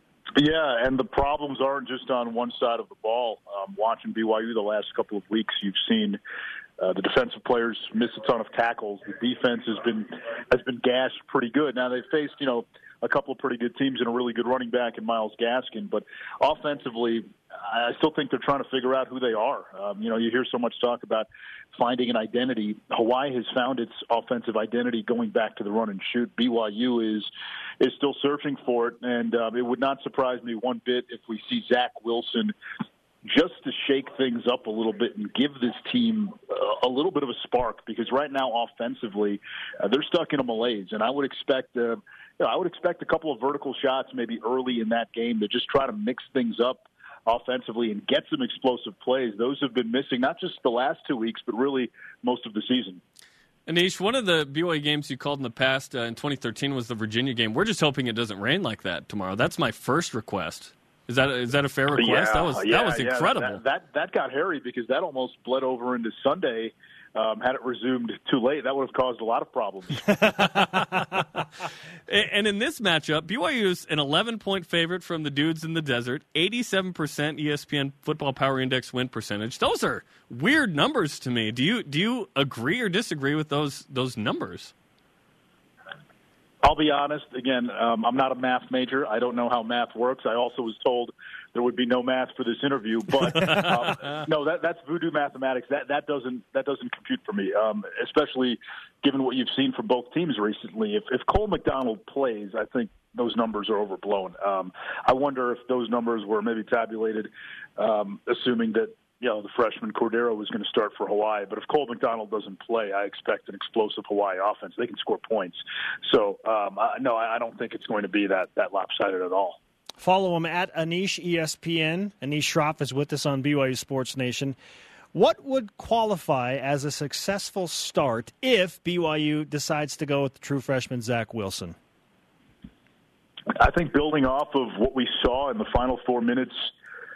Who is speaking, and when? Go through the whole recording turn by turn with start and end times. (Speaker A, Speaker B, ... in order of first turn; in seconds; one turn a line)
Speaker A: 0.3-6.2
Speaker A: 6.8-27.3
Speaker A: 27.8-32.5
Speaker A: 33.2-53.0
Speaker B: 53.7-63.6
Speaker A: 61.9-70.4
Speaker C: 70.2-70.8
Speaker B: 70.5-71.2
Speaker B: 72.1-84.7
Speaker A: 86.6-119.6
Speaker B: 93.4-94.1
Speaker C: 120.0-124.6
Speaker C: 125.1-131.8
Speaker A: 133.6-136.7